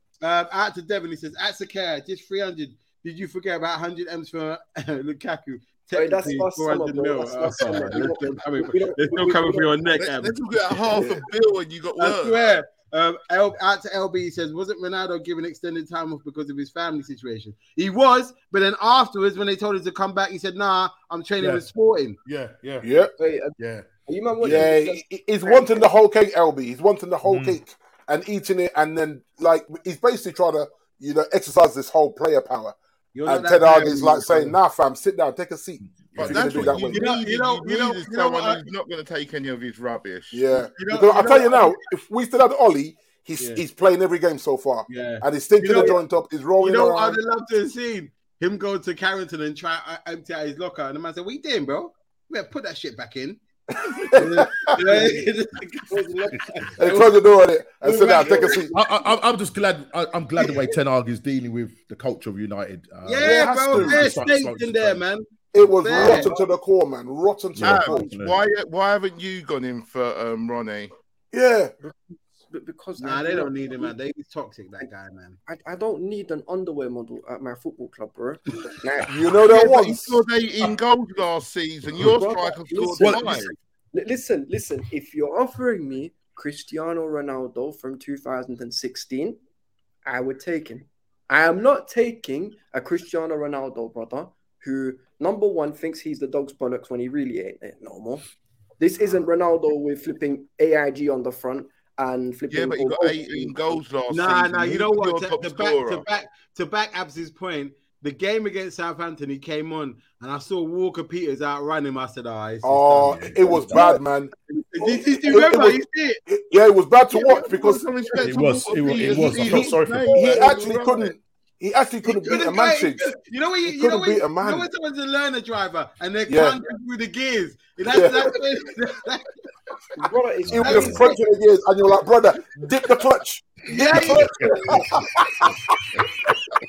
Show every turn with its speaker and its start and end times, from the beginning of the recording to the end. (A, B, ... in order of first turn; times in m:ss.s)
0:00.2-0:10.4 A
0:05.9-0:09.9 B
0:10.0-0:12.4 C
0:12.0-0:22.2 A
0:21.4-0:21.6 D
0:22.2-0:23.9 D
0:22.8-0:23.1 E
0:23.2-0:25.9 B
0:24.4-0:37.0 E
0:27.3-0:27.6 D
0:33.1-0:34.6 A
0:36.1-0:36.9 D
0:36.2-0:40.4 C
0:36.9-0:38.7 A
0:40.3-0:47.2 E
0:40.8-0:41.8 A
0:44.9-0:46.0 A
0:46.6-0:53.4 A
0:53.9-0:54.8 E
0:54.1-0:58.7 A
0:56.8-0:58.8 E
0:58.7-1:05.0 D
1:00.4-1:00.7 A
1:03.0-1:06.3 A
1:03.2-1:04.1 E
1:05.5-1:08.1 E
1:06.0-1:06.4 B
1:07.6-1:08.4 D
1:07.6-1:10.9 C
1:11.3-1:11.7 E
1:12.5-1:13.9 B
1:13.0-1:15.4 A
1:15.5-1:19.2 B
1:19.1-1:20.2 E
1:19.5-1:23.6 C
1:22.0-1:29.4 B
1:23.0-1:23.5 D
1:30.0-1:38.2 B
1:38.8-1:43.8 B
1:42.5-1:46.0 C
1:44.1-1:56.2 A
1:52.6-1:57.9 E
1:53.1-1:53.5 D
1:57.1-2:01.1 C
1:58.2-2:00.2 D
1:59.0-1:59.7 A
2:00.1-2:03.1 E
2:02.0-2:09.3 A
2:03.7-2:04.7 E
2:06.3-2:06.6 E
2:07.9-2:08.4 E
2:10.0-2:11.2 B
2:10.5-2:11.0 D
2:10.5-2:16.0 E
2:10.6-2:11.2 A
2:13.6-2:15.0 A
2:14.0-2:14.8 B